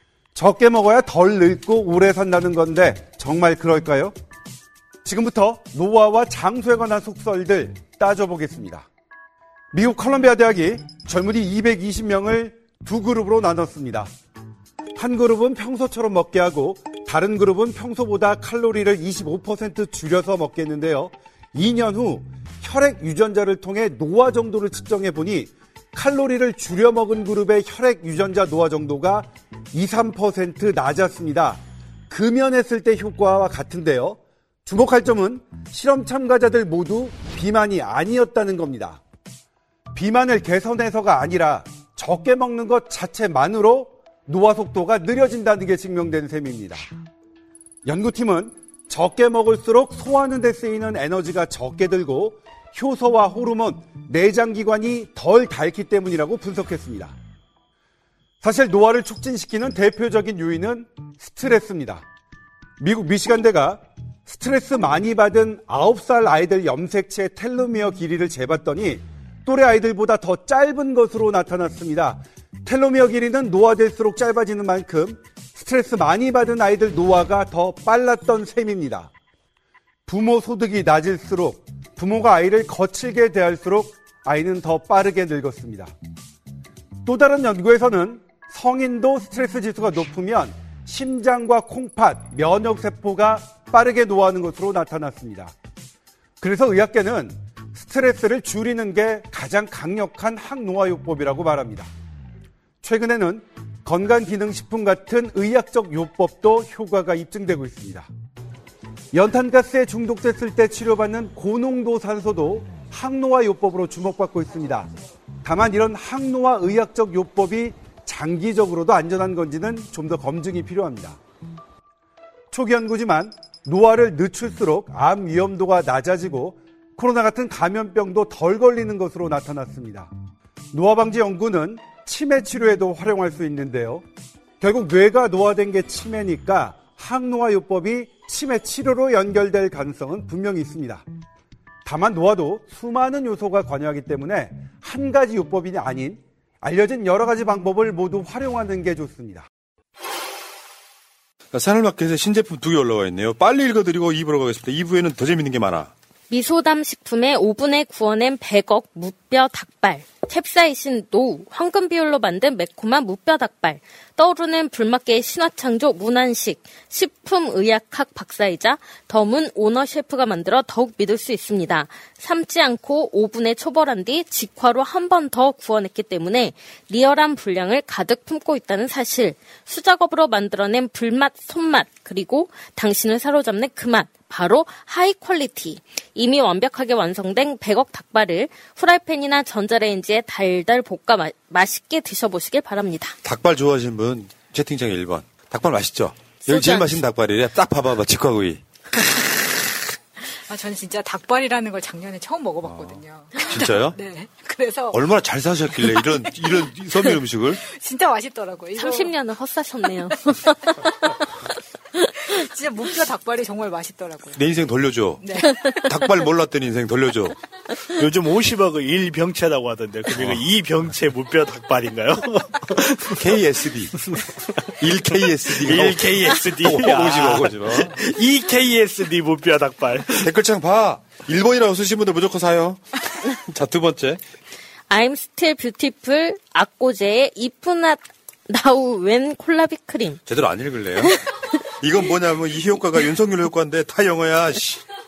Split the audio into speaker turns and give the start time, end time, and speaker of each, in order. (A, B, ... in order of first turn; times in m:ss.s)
0:00.4-0:04.1 A
0:05.0-0:08.9 A
0:09.7-0:14.1 A
0:15.0-0:39.0 A
0:40.0-0:46.9 A
0:47.8-0:57.2 A
0:58.4-1:02.0 A
1:02.8-1:19.1 A
1:20.1-1:25.9 A
1:27.0-1:35.5 A
1:36.4-1:41.9 A
1:42.8-1:48.1 A
1:49.1-1:54.9 A
1:55.4-2:01.2 A
2:02.5-2:10.1 A
2:10.7-2:14.0 A
2:14.6-2:21.0 A
2:21.8-2:29.5 A
2:31.5-2:35.9 B
2:36.3-3:13.2 C
3:13.2-3:18.6 B
3:16.5-3:16.8 C
3:20.5-3:25.0 D
3:23.5-3:24.0 B
3:24.9-3:27.6 B
3:25.9-3:26.3 D
3:27.6-3:29.2 D
3:28.8-3:30.8 C
3:32.2-3:34.4 D
3:34.4-3:37.4 B
3:35.2-3:35.8 D
3:38.0-3:43.3 E
3:40.1-3:40.4 B
3:43.1-3:44.0 B
3:44.8-3:48.0 B
3:45.1-3:50.3 E
3:50.2-3:54.2 B
3:54.9-4:00.2 C
4:00.3-4:01.2 B
4:01.8-4:04.8 B